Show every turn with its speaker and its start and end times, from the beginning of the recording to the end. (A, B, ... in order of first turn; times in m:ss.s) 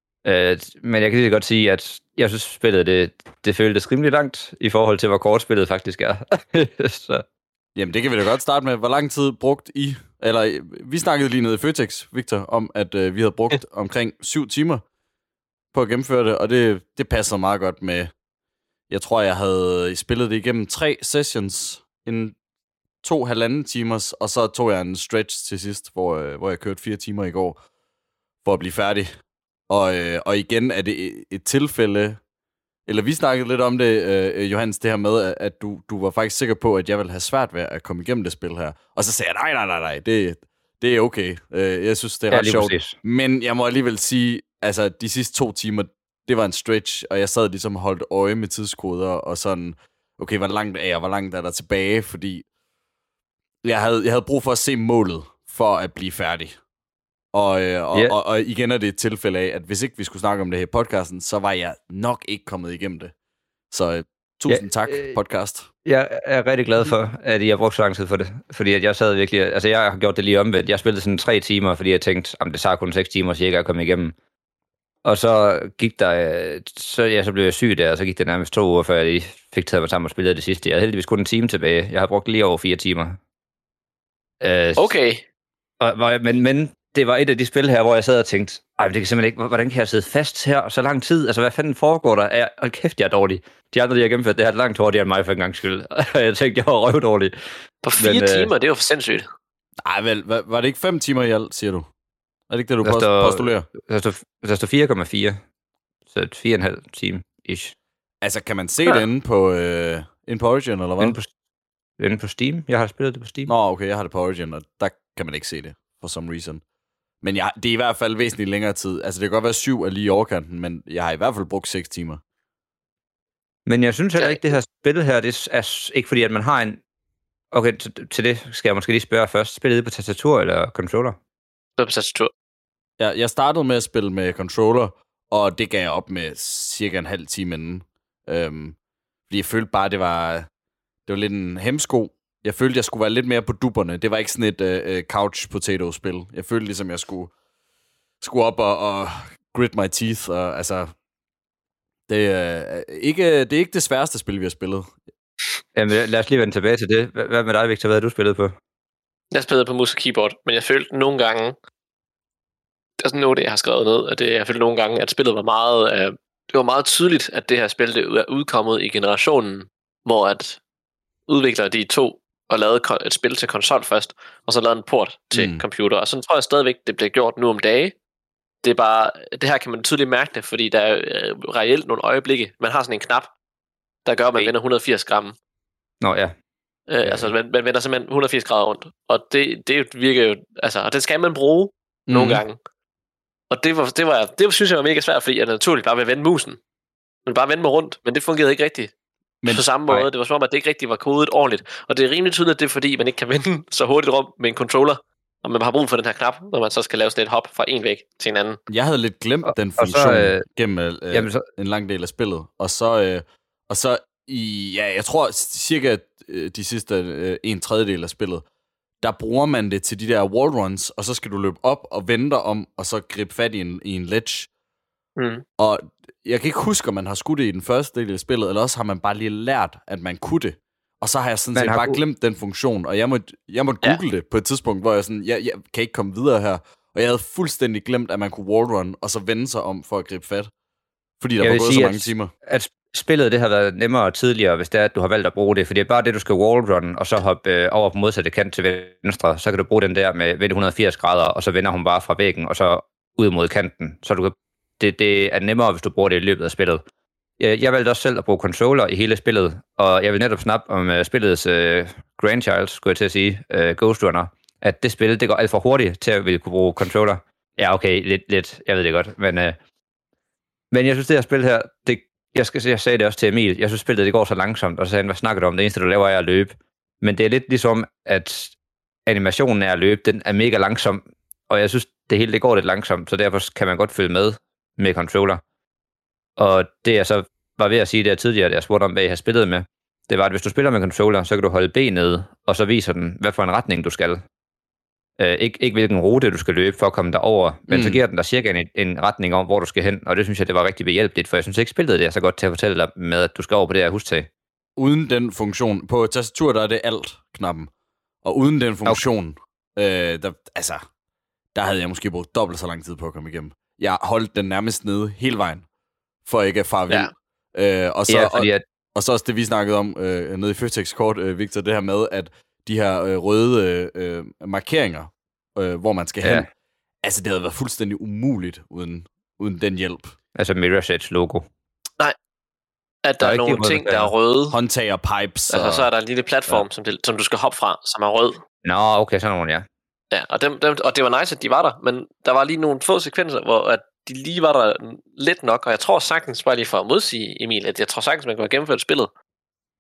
0:00.2-0:07.2 A
0:07.8-0:14.8 B
0:15.7-0:18.1 B
0:18.9-0:22.4 B
0:23.0-0:27.6 B
0:28.4-0:29.1 B
0:29.7-0:32.2 B
0:32.9-0:52.5 B
0:42.3-0:43.0 A
0:53.6-0:56.6 B
0:57.3-1:03.1 B
1:03.7-1:05.7 B
1:04.5-1:05.2 A
1:05.9-1:14.2 A
1:15.0-1:23.2 A
1:24.4-1:24.9 A
1:24.8-1:25.2 C
1:25.8-1:37.4 A
1:37.8-1:39.3 C
1:38.0-1:38.5 A
1:39.8-1:41.9 B
1:42.5-1:43.7 B
1:42.8-1:45.4 A
1:46.1-1:47.8 A
1:48.2-1:51.2 B
1:51.0-1:51.3 A
1:52.0-1:53.5 A
1:53.5-1:56.6 B
1:57.2-2:02.2 B
2:03.7-2:06.8 A
2:04.2-2:04.5 C
2:07.5-2:11.2 A
2:11.8-2:12.3 C
2:13.0-2:18.8 B
2:19.3-2:20.5 B
2:21.1-2:27.3 B
2:28.2-2:30.9 B
2:32.1-2:34.9 B
2:35.8-2:38.6 A
2:39.3-2:41.6 C
2:43.0-2:50.6 C
2:51.3-2:58.0 C
2:55.3-2:55.6 B
2:58.6-3:03.3 C
3:04.0-3:05.4 C
3:06.0-3:06.3 A
3:06.9-3:12.6 C
3:07.0-3:07.3 A
3:12.1-3:12.4 B
3:13.5-3:16.6 C
3:17.3-3:18.9 C
3:19.5-3:28.6 C
3:28.7-3:38.4 B
3:29.5-3:30.4 A
3:31.1-3:31.4 A
3:39.0-3:44.5 B
3:45.2-3:45.4 C
3:45.6-4:00.5 B
3:51.6-3:52.0 A
4:01.2-4:02.3 B
4:01.4-4:16.8 A
4:17.4-4:29.6 A
4:30.7-4:38.6 A
4:39.1-4:45.4 A
4:46.4-4:54.2 A
4:55.2-5:04.3 A
4:57.7-4:58.0 B
5:04.8-5:07.7 B
5:08.2-5:10.8 B
5:11.6-5:15.7 B
5:16.2-5:26.5 B
5:18.1-5:18.6 A
5:26.2-5:26.5 A
5:27.0-5:30.2 B
5:30.4-5:31.5 A
5:33.0-5:34.6 C
5:33.2-5:34.1 A
5:34.5-5:35.9 B
5:35.5-5:38.4 C
5:38.6-5:39.7 A
5:40.1-5:49.1 C